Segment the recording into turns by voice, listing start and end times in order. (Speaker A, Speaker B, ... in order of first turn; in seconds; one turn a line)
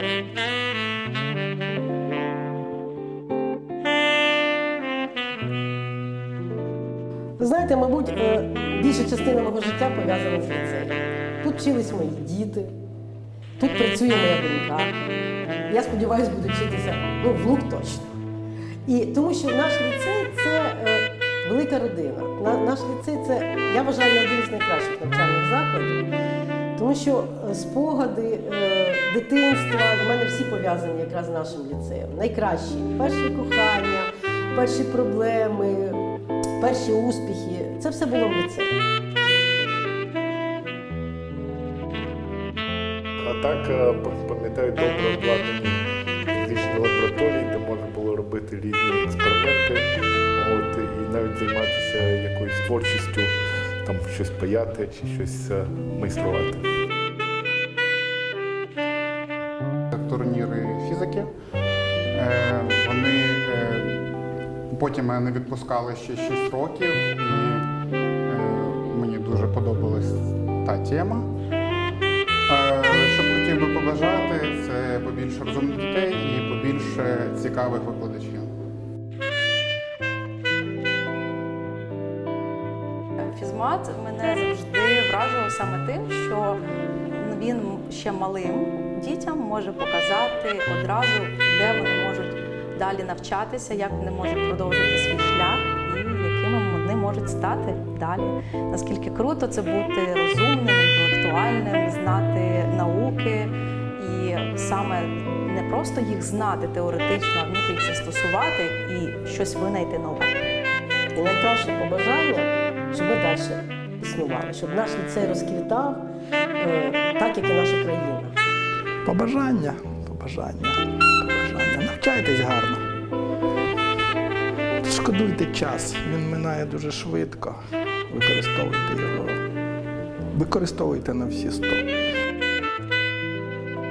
Speaker A: 7.4-12.7
Speaker A: 13.6-15.0
Speaker A: 15.7-18.1
Speaker A: 18.9-26.0
Speaker A: 26.8-36.0
Speaker A: 36.6-38.7
Speaker B: 43.2-45.8
Speaker B: 46.4-49.8
Speaker B: 50.4-53.3
Speaker B: 53.8-56.6
Speaker C: 59.9-61.3
Speaker C: 62.1-64.1
Speaker C: 64.7-67.7
Speaker C: 68.3-71.3
Speaker C: 72.5-78.5
Speaker D: 83.2-86.6
Speaker D: 87.1-110.4
Speaker A: 111.2-116.0
Speaker A: 116.6-118.3
Speaker E: 119.0-122.8
Speaker E: 124.8-129.4
Speaker E: 130.3-131.8